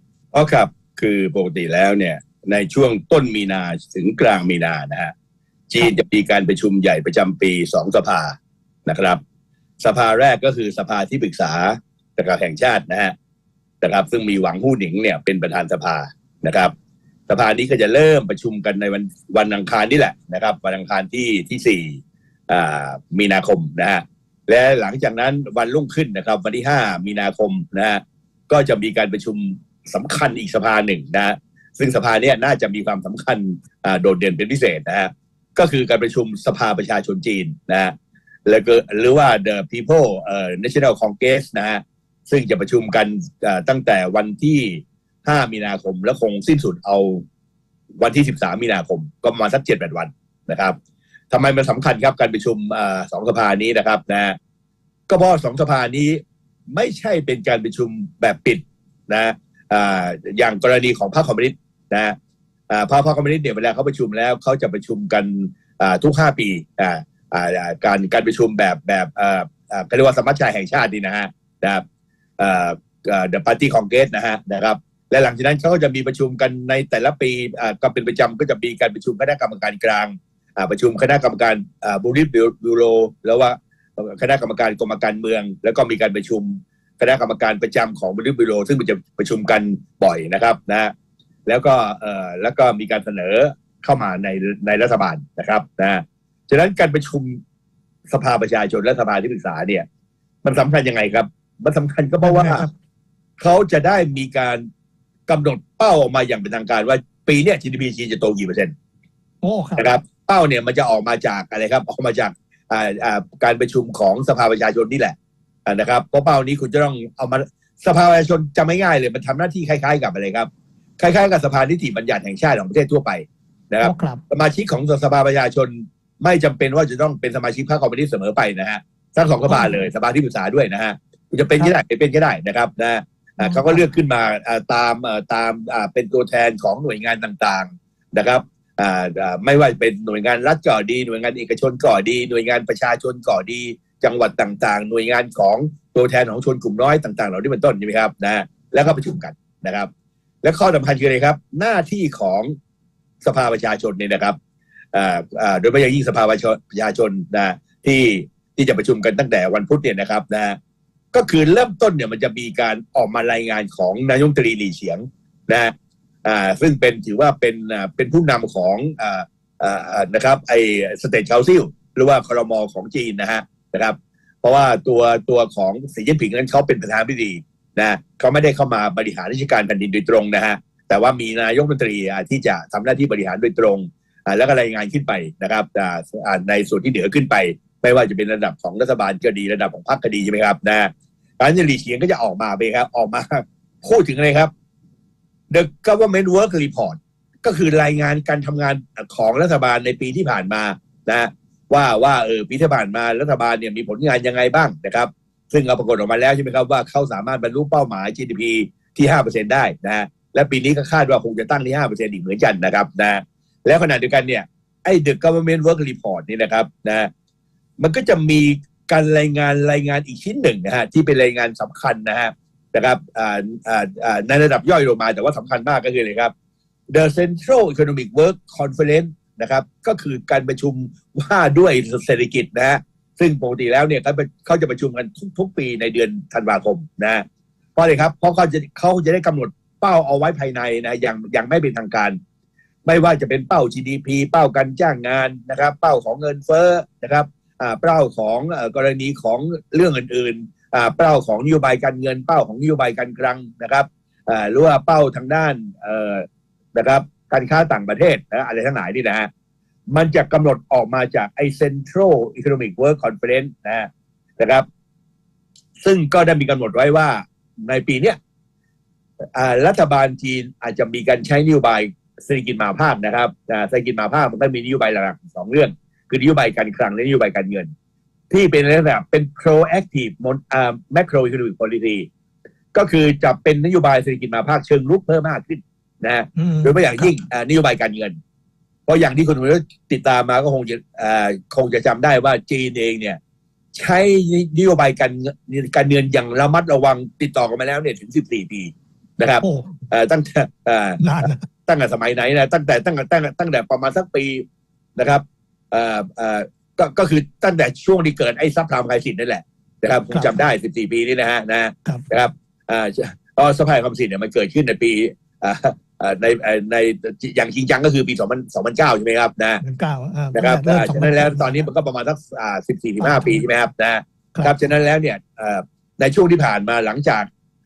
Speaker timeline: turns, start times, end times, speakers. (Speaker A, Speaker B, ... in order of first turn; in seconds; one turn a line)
Speaker A: 0.3-5.1
Speaker A: 5.7-9.2
Speaker A: 9.8-13.1
Speaker A: 13.8-16.7
Speaker A: 17.3-37.9
Speaker A: 38.5-47.2
Speaker A: 48.0-50.8
Speaker A: 51.3-54.4
Speaker A: 55.1-56.2
Speaker A: 56.7-62.2
Speaker A: 62.7-71.8
Speaker A: 72.4-90.9
Speaker A: 91.5-97.4
Speaker A: 98.1-99.8
Speaker A: 100.4-102.7
Speaker B: 102.2-102.7
Speaker A: 103.4-104.6
Speaker A: 105.3-108.7
Speaker B: 109.4-109.9
Speaker A: 109.8-115.1
Speaker A: 115.7-120.5
Speaker A: 121.0-149.9
Speaker B: 123.8-124.2
Speaker B: 129.5-129.9
Speaker B: 133.4-133.9
Speaker A: 150.4-152.5
Speaker A: 153.2-154.4
Speaker A: 154.9-160.6
Speaker A: 161.1-165.7
Speaker A: 166.2-194.5
Speaker A: 195.5-217.1
Speaker A: 217.8-226.3
Speaker A: 226.9-237.2
Speaker A: 237.8-242.2
Speaker A: 242.9-259.3
Speaker A: 259.9-263.9
Speaker A: 264.4-264.6
Speaker A: 265.8-268.2
Speaker A: 269.4-277.7
Speaker A: 278.3-282.1
Speaker A: 282.7-288.2
Speaker B: 286.4-287.2
Speaker A: 288.9-293.2
Speaker A: 293.8-304.4
Speaker B: 299.4-299.8
Speaker B: 301.0-301.4
Speaker A: 304.9-319.6
Speaker B: 310.1-310.4
Speaker B: 319.6-321.7
Speaker A: 320.3-327.3
Speaker B: 323.0-323.4
Speaker B: 324.3-324.6